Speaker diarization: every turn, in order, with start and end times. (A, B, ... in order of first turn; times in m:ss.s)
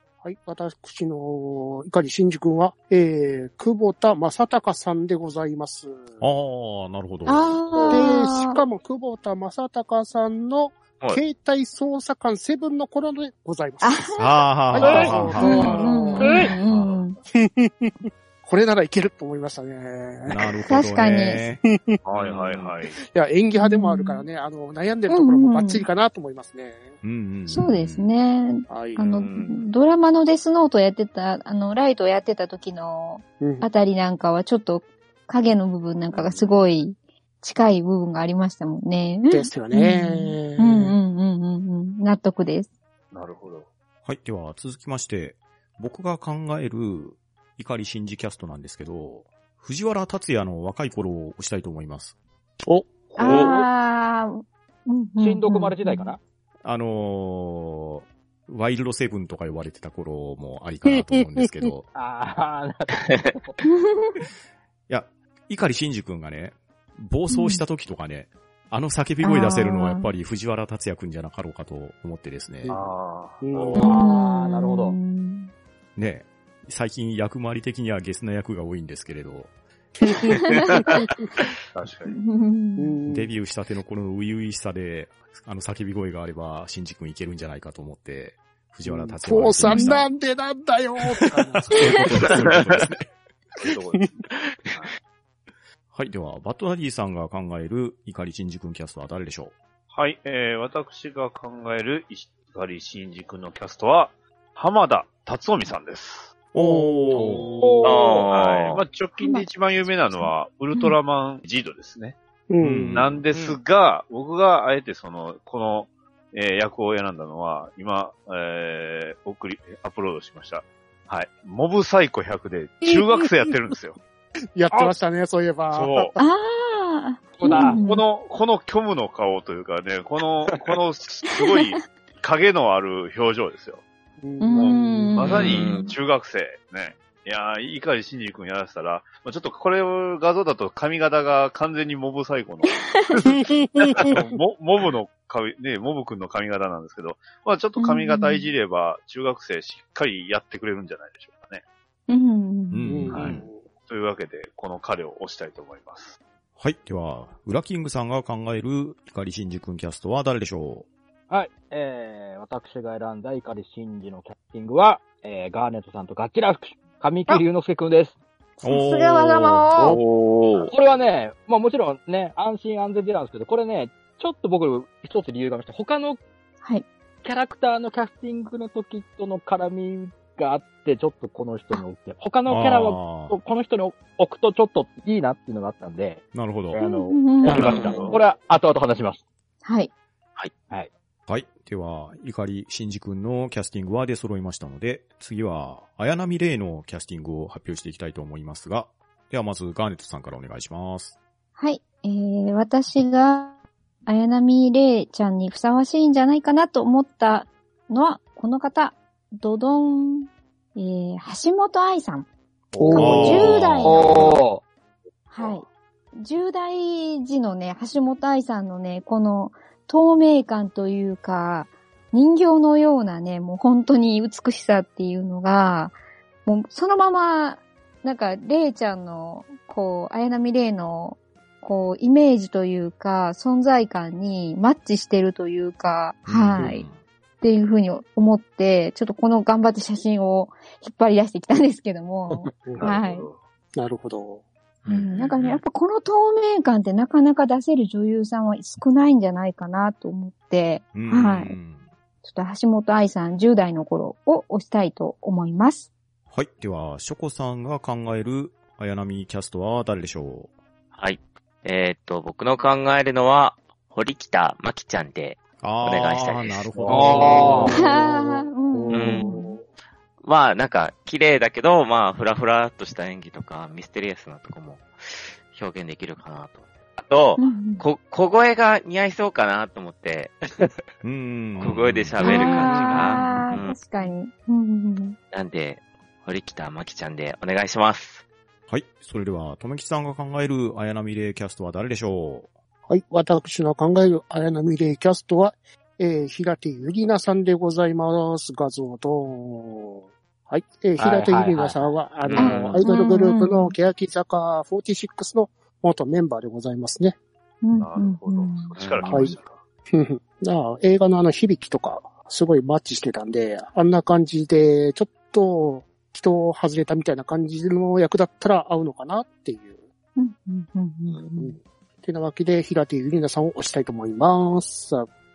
0:00.2-0:06.2 A
0:06.2-0:07.6 B
0:07.3-0:08.6 C
0:07.9-0:16.5 A
0:13.8-0:17.2 C
0:14.2-0:16.1 B
0:14.8-0:15.4 D
0:16.2-0:16.5 D
0:16.7-0:17.0 E
0:17.3-0:20.4 A
0:20.2-0:21.6 B
0:20.7-0:21.4 C
0:21.6-0:22.0 A
0:22.0-0:23.0 E
0:22.1-0:22.8 F
0:23.0-0:27.0 A
0:23.6-0:24.2 C
0:25.1-0:25.8 C
0:27.0-0:28.1 B
0:27.5-0:42.7 C
0:28.7-0:29.2 A
0:29.2-0:29.7 F
0:33.4-0:33.7 A
0:36.1-0:36.6 E
0:39.3-0:41.0 A
0:43.1-0:43.7 E
0:44.0-0:52.2 B
0:52.7-0:53.5 A
0:53.2-0:56.1 C
0:55.2-0:56.2 D
0:56.6-1:01.9 B
1:00.9-1:01.7 A
1:01.9-1:03.6 D
1:03.6-1:04.1 C
1:04.9-1:12.8 B
1:07.3-1:07.6 C
1:09.2-1:10.1 C
1:12.6-1:12.9 A
1:12.7-1:13.9 E
1:13.4-1:14.0 A
1:13.7-1:15.0 D
1:13.8-1:15.5 C
1:16.0-1:19.5 B
1:20.0-1:21.1 A
1:21.7-1:22.2 E
1:22.1-1:23.0 C
1:22.8-1:23.3 A
1:23.1-1:30.1 B
1:28.8-1:32.4 A
1:31.7-1:33.0 B
1:33.6-1:34.1 E
1:33.6-1:34.1 A
1:34.4-1:34.8 F
1:35.9-1:39.6 B
1:39.9-1:46.4 E
1:46.5-1:47.4 B
1:46.6-1:47.2 A
1:47.1-1:48.0 D
1:47.4-1:52.2 E
1:47.8-1:48.8 F
1:49.2-1:49.5 C
1:50.0-1:51.0 C
1:52.5-1:53.1 A
1:52.6-1:53.2 B
1:52.9-2:04.0 E
2:02.9-2:03.2 A
2:04.6-2:06.2 A
2:05.7-2:06.1 E
2:06.2-2:08.0 C
2:07.4-2:07.8 D
2:07.7-2:13.8 E
2:14.2-2:15.4 A
2:14.4-2:15.8 C
2:14.6-2:31.6 E
2:15.3-2:16.0 F
2:22.9-2:23.2 C
2:23.2-2:24.3 A
2:27.8-2:28.5 C
2:32.1-2:32.9 C
2:32.7-2:33.5 B
2:32.9-2:33.7 A
2:33.1-2:36.2 E
2:36.6-2:40.9 B
2:41.3-2:48.2 D
2:48.6-2:50.0 C
2:48.6-2:49.7 B
2:49.8-2:50.7 F
2:50.7-2:56.2 D
2:57.2-3:09.2 D
3:02.5-3:03.4 B
3:06.3-3:06.8 B
3:06.8-3:07.6 C
3:07.4-3:08.1 F
3:07.5-3:08.2 E
3:09.6-3:09.9 C
3:11.3-3:21.2 B
3:21.6-3:23.6 C
3:24.1-3:32.3 C
3:32.7-3:34.6 D
3:32.8-3:33.5 A
3:32.9-3:34.3 C
3:33.0-3:34.4 B
3:35.3-3:56.9 C
3:56.3-3:57.0 B
3:57.4-4:03.3 C
4:02.3-4:03.0 A
4:02.8-4:03.4 E
4:03.8-4:04.4 A
4:04.9-4:11.6 C
4:04.9-4:05.5 F
4:10.9-4:11.8 B
4:12.2-4:15.9 C
4:16.3-4:20.5 B
4:20.9-4:27.4 F
4:25.6-4:27.7 B
4:26.9-4:27.9 D
4:27.2-4:29.6 A
4:27.8-4:29.6 C
4:28.9-4:29.3 F
4:30.2-4:40.7 F
4:37.4-4:37.8 C
4:41.0-4:42.4 B
4:41.6-4:43.8 F
4:42.2-4:45.2 C
4:45.3-4:48.2 F
4:48.7-4:52.5 B
4:52.9-5:07.2 A
5:01.0-5:02.8 D
5:02.2-5:02.5 F
5:02.4-5:03.8 C
5:02.5-5:02.8 E
5:07.6-5:08.7 C
5:07.8-5:09.6 E
5:08.8-5:09.4 F
5:09.0-5:09.4 A
5:09.9-5:19.8 A
5:20.2-5:21.6 C
5:21.4-5:25.1 A